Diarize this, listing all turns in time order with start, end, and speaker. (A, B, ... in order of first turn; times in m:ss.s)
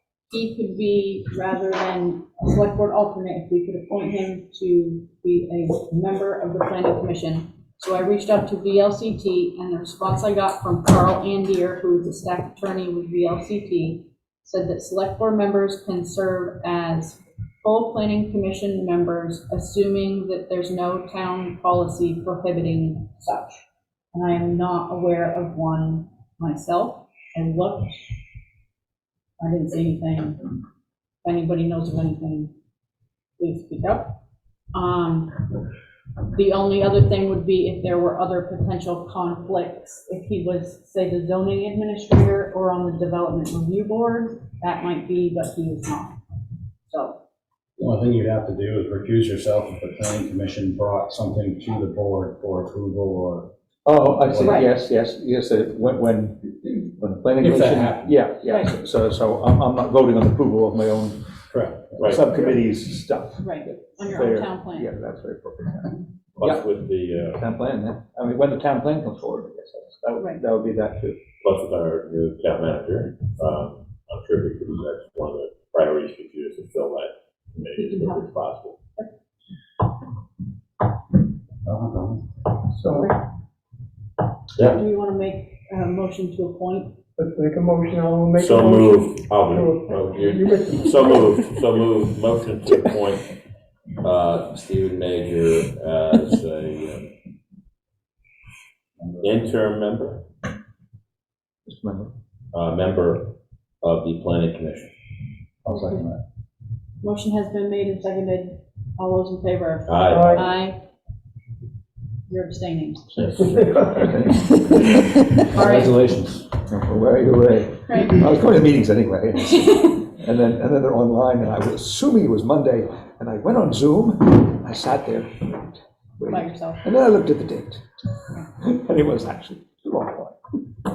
0:00.3-0:28.1 A
0:29.4-0:30.4 A
0:31.2-0:32.5 A
0:33.4-0:34.2 A
0:34.7-0:35.4 A
0:36.3-0:46.2 A
0:46.9-0:47.2 A
0:47.8-0:54.6 B
0:53.8-1:01.2 C
0:54.4-0:54.7 A
0:57.3-0:58.2 B
0:58.4-0:58.7 A
1:01.5-1:02.6 B
1:01.9-1:02.2 D
1:02.0-1:06.6 C
1:03.4-1:04.9 A
1:06.4-1:07.4 D
1:07.4-1:11.2 C
1:10.2-1:10.4 A
1:11.4-1:18.7 D
1:17.7-1:18.2 A
1:21.6-1:22.2 B
1:22.8-1:23.1 E
1:24.6-1:27.0 A
1:27.2-1:31.2 E
1:28.3-1:33.3 D
1:34.0-1:37.1 D
1:39.0-1:39.5 B
1:39.2-1:40.2 D
1:41.7-1:42.1 C
1:42.5-1:44.9 D
1:45.7-1:46.2 C
1:45.7-1:46.0 A
1:47.0-1:50.8 A
1:49.9-1:50.4 D
1:50.1-1:50.5 E
1:52.3-1:53.2 A
1:53.1-1:55.4 C
1:55.5-1:56.5 B
1:55.5-1:56.1 A
1:56.7-2:07.8 C
1:57.8-1:58.3 A
1:59.6-2:00.0 A
2:06.3-2:06.8 A
2:08.6-2:10.4 C